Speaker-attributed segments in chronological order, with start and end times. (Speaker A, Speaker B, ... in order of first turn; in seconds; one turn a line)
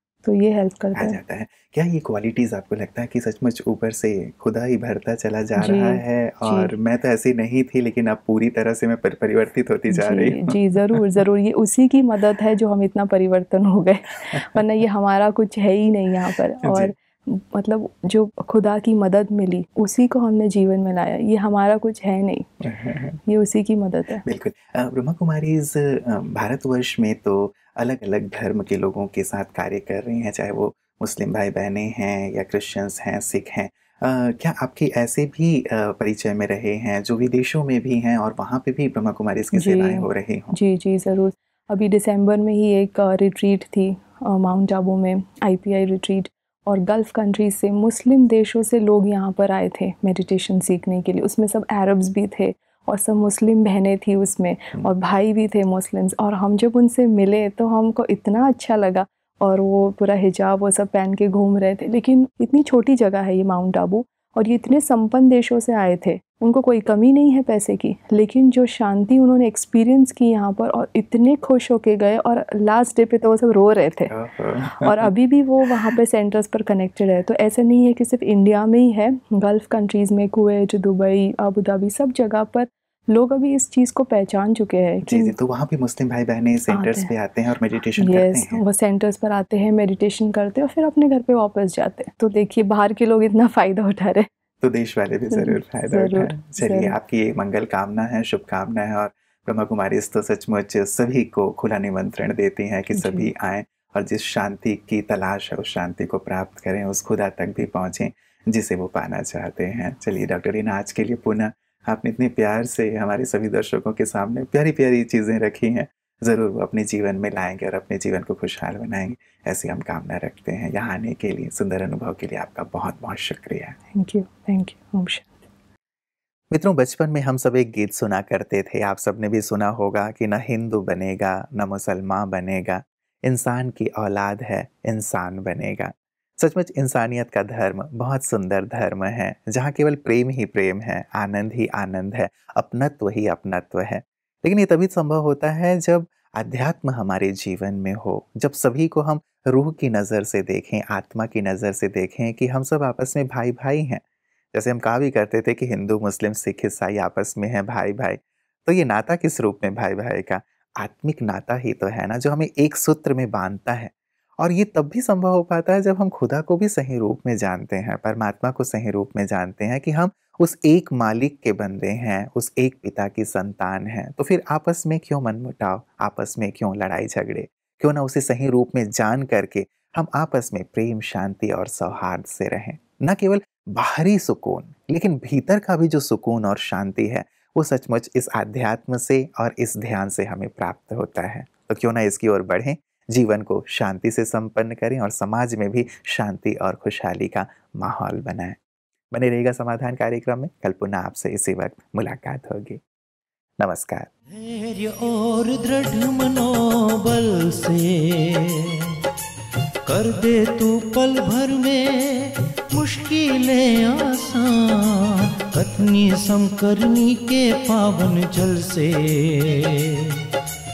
Speaker A: 0.2-1.2
Speaker B: 1.0-11.0
Speaker A: 5.6-6.7
Speaker A: 9.9-22.5
Speaker B: 16.6-16.9
Speaker B: 22.6-23.2
Speaker A: 23.3-24.2
Speaker B: 24.2-40.5
Speaker A: 39.5-74.1
Speaker B: 74.1-75.1
Speaker A: 74.8-85.3
Speaker B: 85.0-88.6
Speaker A: 86.7-87.1
Speaker A: 88.0-94.3
Speaker B: 94.6-123.8
Speaker A: 95.3-96.9
Speaker A: 103.0-103.3
Speaker A: 123.9-125.3
Speaker B: 126.5-154.0
Speaker B: 154.5-198.6
Speaker B: 199.1-202.8
Speaker B: 203.6-204.1
Speaker C: 204.3-209.0
Speaker C: 209.9-220.2